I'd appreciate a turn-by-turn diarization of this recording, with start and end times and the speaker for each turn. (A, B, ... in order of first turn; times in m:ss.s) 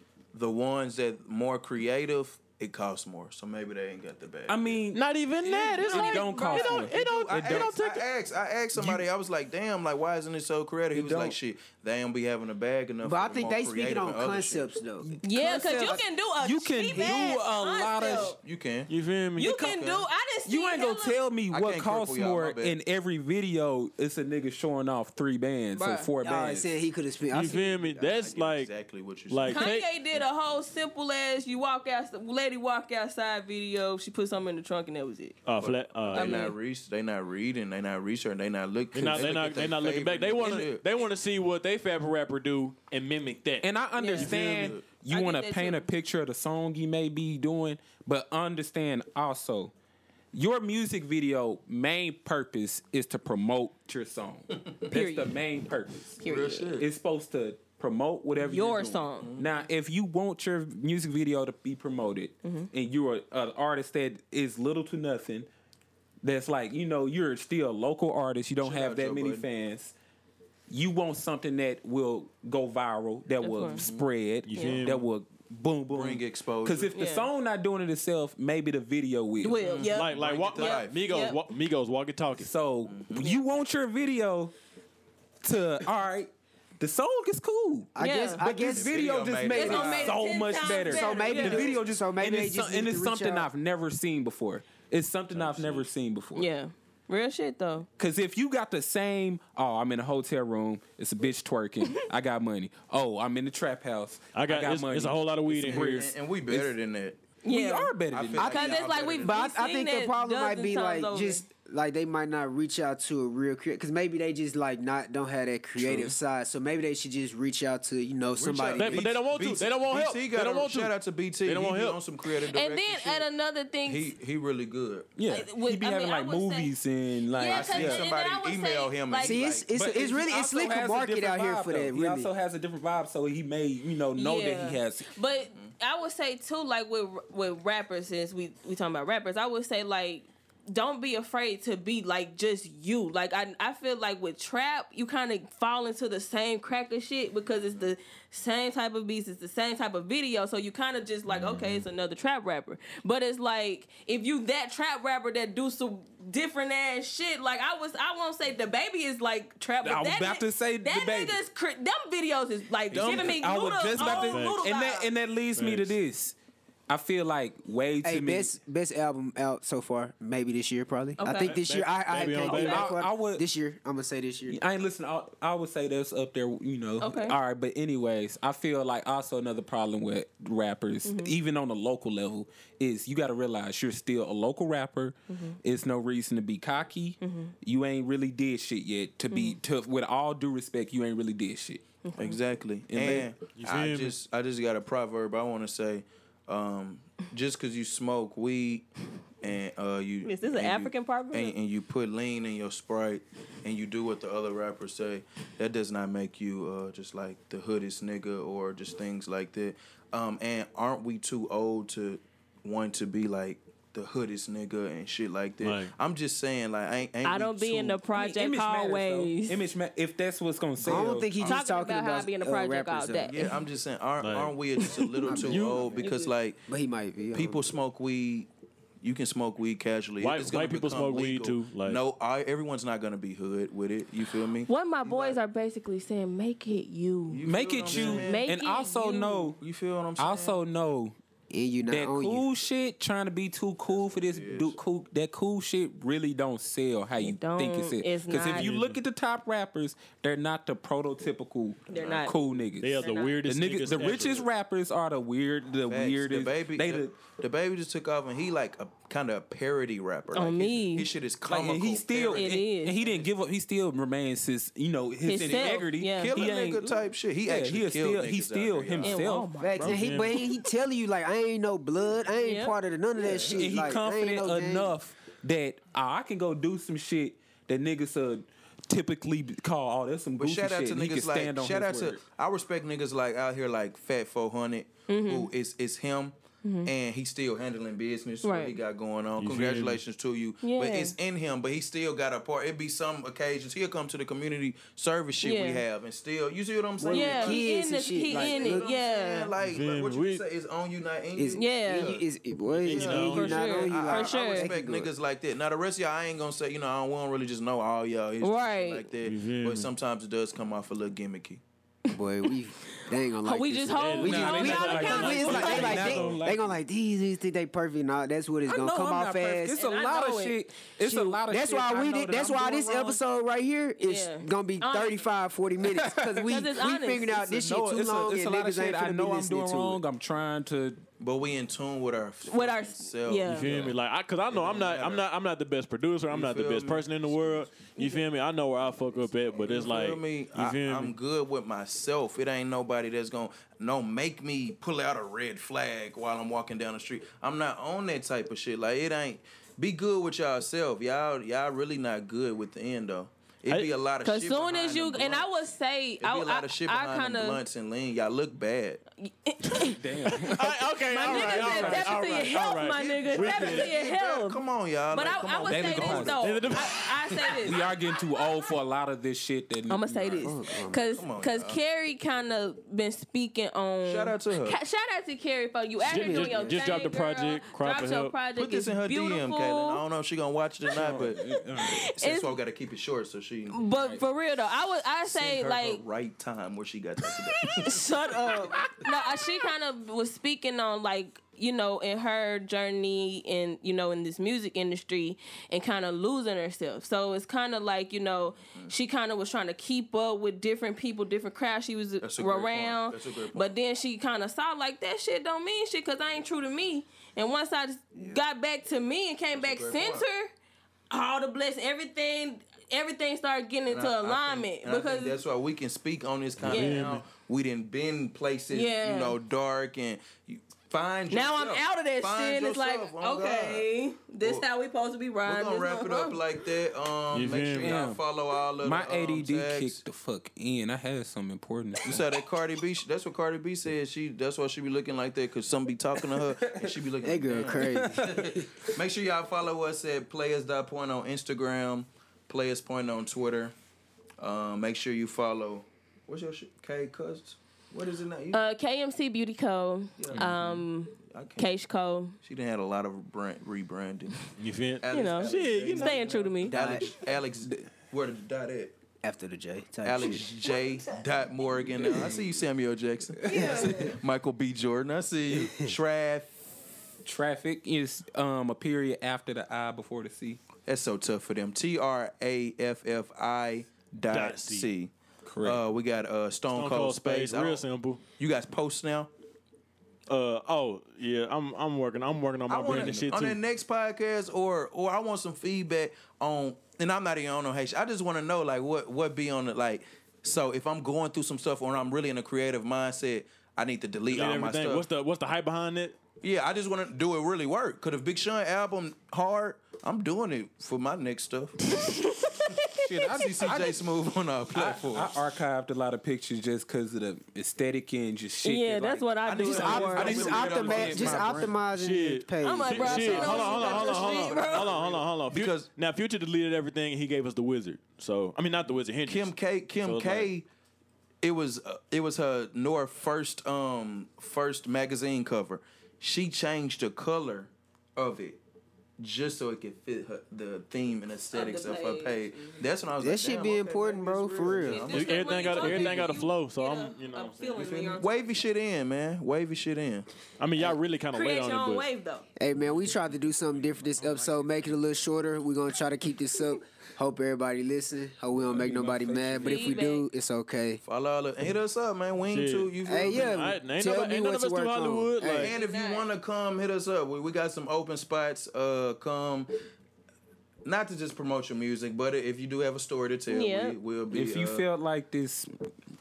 0:00.3-0:04.8 A
0:04.5-0:07.8 B
0:04.9-0:08.1 C
0:05.8-0:06.9 D
0:06.7-0:14.7 A
0:08.7-0:09.0 B
0:10.9-0:11.4 B
0:13.0-0:16.0 E
0:15.0-0:18.4 B
0:15.2-0:18.4 D
0:16.9-0:17.3 E
0:18.4-0:18.9 A
0:18.9-0:19.7 C
0:19.4-0:21.2 D
0:19.4-0:19.7 B
0:19.6-0:20.1 A
0:20.4-0:26.7 B
0:21.5-0:22.7 A
0:25.7-0:26.1 D
0:26.2-0:28.0 E
0:27.3-0:28.7 C
0:27.5-0:29.7 A
0:29.3-0:29.9 C
0:29.4-0:35.4 D
0:35.4-0:36.5 C
0:35.6-0:40.8 A
0:36.1-0:36.5 D
0:38.9-0:43.7 C
0:43.6-0:49.7 B
0:43.9-0:45.9 D
0:44.2-0:44.7 C
0:44.2-0:44.8 A
0:50.3-0:56.2 B
0:54.9-0:55.3 D
0:56.2-0:56.8 D
0:56.2-0:56.8 A
0:56.8-1:05.5 B
0:58.4-0:59.3 D
0:59.2-0:59.5 A
1:02.4-1:02.7 D
1:06.2-1:09.9 B
1:08.6-1:09.4 A
1:10.7-1:19.6 B
1:13.4-1:13.9 D
1:13.7-1:14.0 A
1:14.4-1:15.1 C
1:14.5-1:14.8 D
1:15.9-1:16.9 A
1:16.9-1:17.3 D
1:19.4-1:21.4 D
1:19.6-1:21.1 A
1:19.7-1:22.5 C
1:22.4-1:24.5 B
1:22.9-1:23.3 A
1:25.4-1:36.5 B
1:27.9-1:30.1 E
1:28.0-1:28.4 D
1:28.6-1:30.2 A
1:29.5-1:31.8 D
1:30.6-1:33.5 E
1:35.3-1:35.8 C
1:36.3-1:37.9 D
1:38.0-1:46.8 B
1:44.3-1:46.1 C
1:45.7-1:47.2 A
1:47.4-1:48.5 B
1:47.4-1:51.4 D
1:48.1-1:49.4 A
1:48.4-1:59.1 E
1:55.8-1:56.1 B
1:58.4-2:03.3 A
1:58.7-2:02.0 C
2:02.4-2:04.1 D
2:03.8-2:05.1 A
2:05.2-2:08.0 B
2:05.3-2:06.7 D
2:07.3-2:09.4 D
2:07.5-2:09.6 A
2:09.2-2:12.3 E
2:09.7-2:15.1 B
2:14.2-2:45.1 D
2:39.8-2:41.4 B
2:42.9-2:43.4 A
2:42.9-2:46.3 B
2:44.0-2:44.6 C
2:45.5-2:45.9 C
2:46.9-2:48.5 B
2:48.0-2:54.6 E
2:51.2-2:51.6 D
2:51.3-2:52.9 C
2:52.4-2:53.4 B
2:54.5-3:11.8 B
2:57.0-2:57.4 D
3:01.0-3:01.3 D
3:05.3-3:05.6 D
3:07.2-3:07.5 D
3:09.3-3:09.6 D
3:12.0-3:12.3 D
3:12.1-3:18.9 A
3:12.9-3:13.3 B
3:13.5-3:14.2 C
3:19.4-3:38.0 A
3:20.2-3:21.5 D
3:35.6-3:35.9 C
3:37.2-3:39.6 D
3:38.1-3:41.3 B
3:40.8-3:43.3 E
3:40.8-3:41.6 A
3:41.4-3:43.6 D
3:43.3-3:46.6 A
3:44.2-3:44.5 C
3:44.8-3:46.3 D
3:45.2-3:46.1 E
3:45.4-3:45.9 C
3:46.7-3:47.7 E
3:47.3-3:48.5 A
3:49.0-3:55.4 A
3:50.2-3:52.0 C
3:54.6-3:59.5 D
3:57.3-3:58.4 A
3:57.4-3:59.6 B
3:59.6-4:00.5 A
4:00.2-4:01.1 B
4:01.5-4:02.4 E
4:01.8-4:17.1 B
4:03.9-4:04.8 A
4:07.2-4:08.7 D
4:08.5-4:09.0 C
4:11.9-4:12.4 D
4:11.9-4:12.3 A
4:12.8-4:14.5 C
4:13.0-4:13.4 D
4:15.9-4:23.3 A
4:20.3-4:21.1 D
4:21.4-4:29.5 B
4:22.3-4:23.0 D
4:25.2-4:26.4 D
4:25.4-4:29.3 A
4:29.0-4:30.0 D
4:29.6-4:34.9 E
4:29.8-4:30.4 C
4:32.4-4:32.7 D
4:33.2-4:42.2 B
4:40.4-4:46.3 A
4:45.1-4:45.5 D
4:46.6-4:46.9 D
4:46.8-4:57.6 A
4:48.4-4:48.8 D
4:49.4-4:50.0 C
4:50.6-4:51.1 D
4:55.4-4:55.8 D
4:57.0-4:58.8 E
4:57.1-4:59.5 D
4:58.3-5:02.2 A
4:59.6-5:00.4 C
5:01.3-5:05.1 E
5:01.5-5:02.2 D
5:02.8-5:11.6 A
5:02.8-5:03.7 C
5:03.2-5:04.7 D
5:08.4-5:09.0 D
5:09.2-5:09.9 C
5:12.1-5:16.1 D
5:12.1-5:19.8 E
5:13.9-5:16.4 C
5:14.3-5:16.7 B
5:18.6-5:23.2 B
5:19.7-5:20.6 D
5:21.0-5:30.0 E
5:24.0-5:25.2 D
5:25.9-5:26.6 B
5:26.4-5:27.4 D
5:27.4-5:31.0 B
5:31.2-5:35.2 A
5:32.5-5:33.8 D
5:33.4-5:41.1 C
5:36.3-5:37.6 A
5:39.5-5:55.5 A
5:54.2-5:57.6 D
5:56.2-5:59.0 A
5:59.2-6:07.8 D
5:59.8-6:02.7 B
6:00.4-6:03.9 C
6:02.8-6:06.7 A
6:05.6-6:06.4 B
6:06.3-6:07.0 C
6:07.6-6:10.5 B
6:09.9-6:20.0 D
6:10.4-6:11.1 E
6:11.1-6:11.8 A
6:14.0-6:14.8 A
6:16.0-6:18.4 C
6:16.0-6:16.7 E
6:18.5-6:23.8 A
6:20.9-6:22.1 B
6:21.8-6:22.5 D
6:23.7-6:26.0 D
6:23.9-6:24.2 B
6:25.2-6:28.2 A
6:27.6-6:50.5 D
6:42.2-6:43.7 A
6:48.2-6:48.4 A
6:49.5-6:50.2 A
6:51.1-6:55.4 D
6:53.9-7:03.9 A
6:56.6-6:57.2 C
6:56.6-6:57.1 D
6:58.7-6:59.4 D
7:01.3-7:06.4 D
7:05.4-7:10.0 A
7:07.3-7:08.0 C
7:07.8-7:08.2 B
7:08.8-7:12.3 B
7:12.0-7:23.7 A
7:16.2-7:17.0 B
7:17.2-7:18.6 E
7:17.7-7:18.6 B
7:24.4-7:28.6 A
7:28.5-7:32.4 D
7:30.2-7:30.6 A
7:31.3-7:31.7 A
7:32.4-7:34.5 A
7:34.6-7:36.5 C
7:35.0-7:39.0 A
7:35.1-7:37.0 D
7:36.7-7:37.0 E
7:39.2-7:40.6 E
7:40.0-7:46.6 A
7:43.4-7:44.2 D
7:43.5-7:44.1 E
7:45.5-7:45.9 E
7:47.2-7:50.6 B
7:50.8-7:57.8 A
7:54.3-7:54.9 C
7:55.5-7:55.8 B
7:56.7-7:58.2 C
7:58.4-7:59.3 A
8:00.3-8:03.6 C
8:02.7-8:15.0 A
8:02.8-8:03.4 B
8:14.3-8:16.2 C
8:16.4-8:21.8 A
8:21.9-8:23.3 D
8:22.7-8:24.0 B
8:23.3-8:25.4 A
8:24.7-8:31.7 B
8:28.6-8:30.5 D
8:29.4-8:31.7 A
8:29.6-8:34.1 E
8:31.9-8:40.5 C
8:32.6-8:35.0 D
8:33.5-8:35.9 A
8:39.2-8:40.6 A
8:41.4-8:48.6 A
8:49.2-8:56.4 A
8:51.5-8:52.9 D
8:53.2-8:55.1 E
8:54.6-8:58.6 D
8:55.1-8:57.9 C
8:57.7-9:00.3 A
9:00.6-9:02.1 C
9:01.3-9:02.4 D
9:02.6-9:11.0 E
9:08.7-9:09.6 C
9:08.8-9:10.0 B
9:09.6-9:10.2 D
9:11.0-9:13.6 A
9:12.5-9:15.7 C
9:13.0-9:15.7 E
9:15.6-9:19.7 A
9:15.6-9:16.3 D
9:20.8-9:24.8 A
9:23.5-9:24.0 D
9:24.3-9:25.7 B